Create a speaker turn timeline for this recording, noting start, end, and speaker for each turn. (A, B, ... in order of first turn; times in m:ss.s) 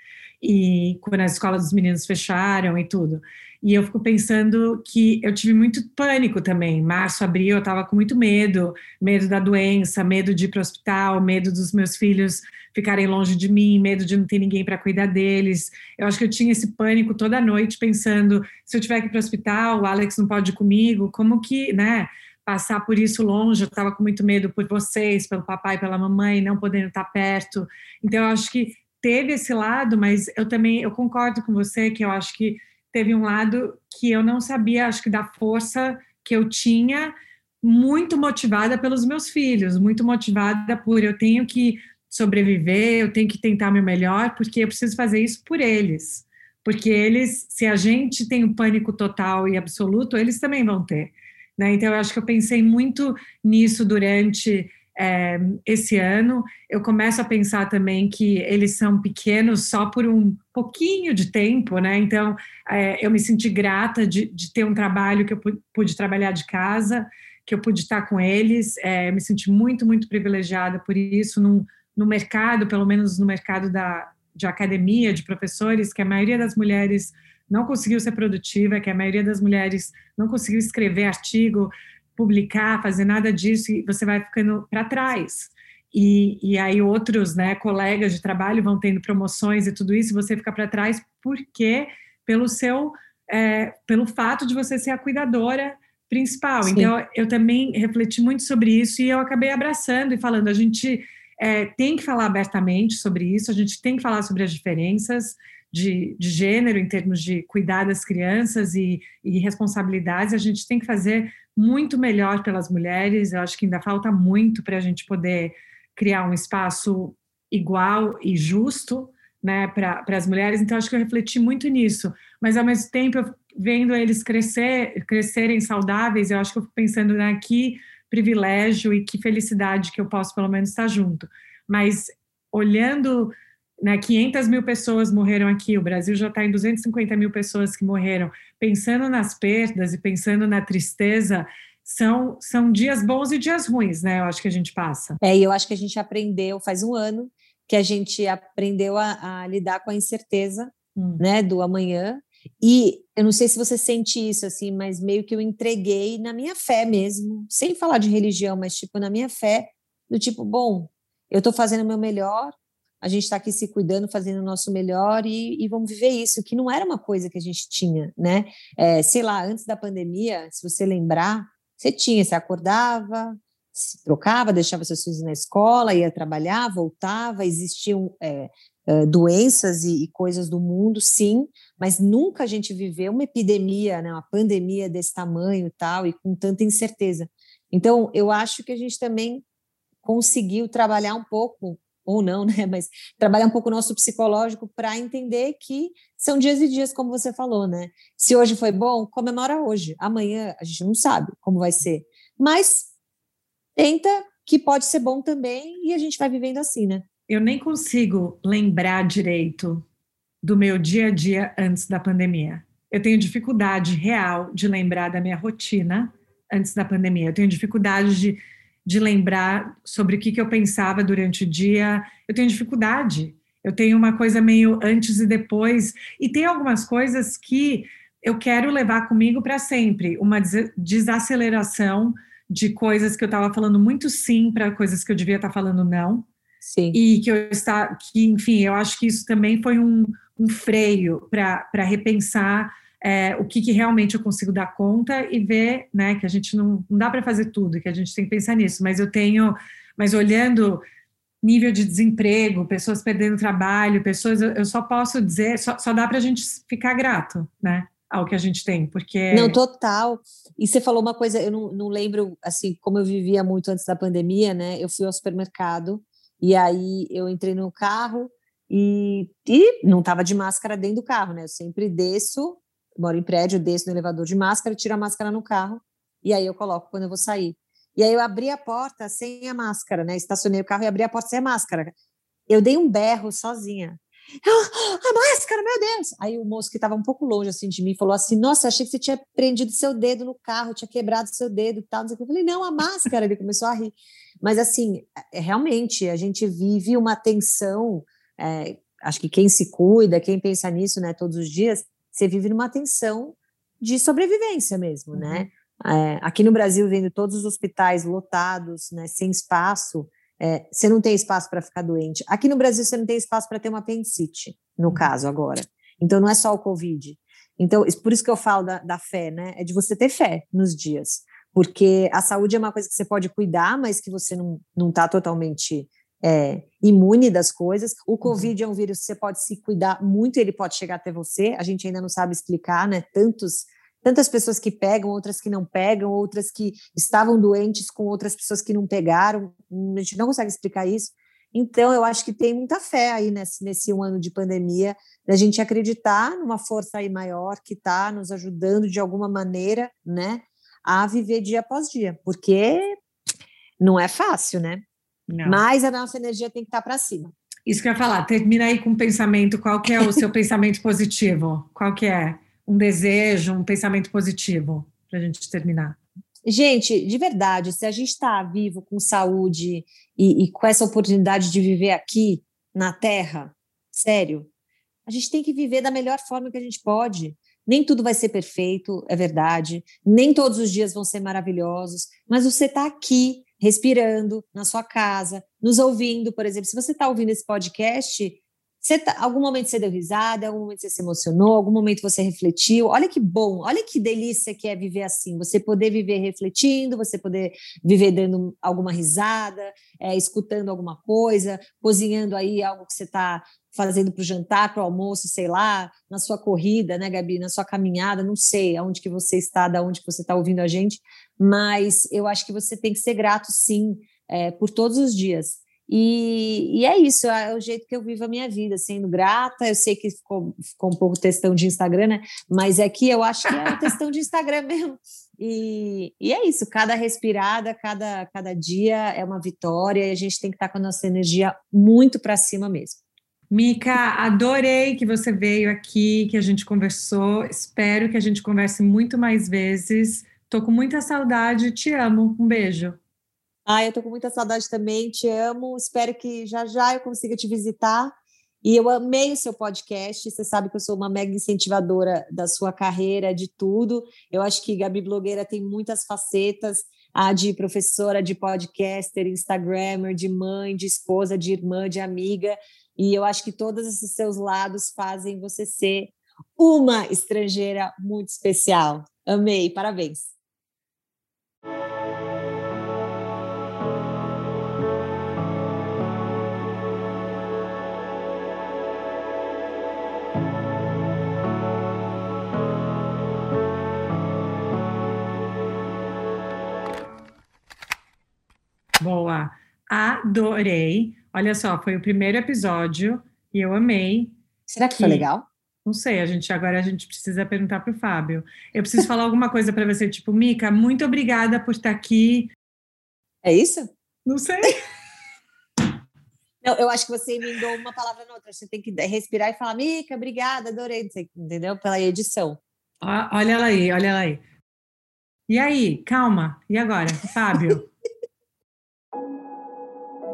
0:00.4-2:25.2 A
1:36.7-1:36.9 B
2:25.2-3:09.4 B
2:31.0-2:31.2 A
3:10.0-3:22.9 B
3:23.8-3:27.0 B
3:27.3-3:29.8 A
3:30.4-3:56.3 A
3:56.6-3:57.0 B
3:56.9-4:10.8 A
4:11.4-4:19.6 A
4:19.3-4:41.9 B
4:42.5-5:53.0 B
5:05.1-5:05.5 A
5:28.2-5:28.5 A
5:53.8-5:54.8 B
5:55.3-5:55.6 A
5:55.4-5:57.3 B
5:57.7-6:06.0 A
6:06.4-6:14.5 B
6:15.1-7:13.0 B
7:13.5-7:23.0 A
7:23.7-7:50.3 B
8:09.0-8:14.4 A
8:14.7-8:15.5 B
8:14.9-8:15.3 A
8:15.8-8:22.5 A
8:23.4-8:23.9 B
8:24.3-8:24.8 A
8:26.6-8:32.6 B
8:33.0-8:34.4 A
8:35.5-8:37.9 A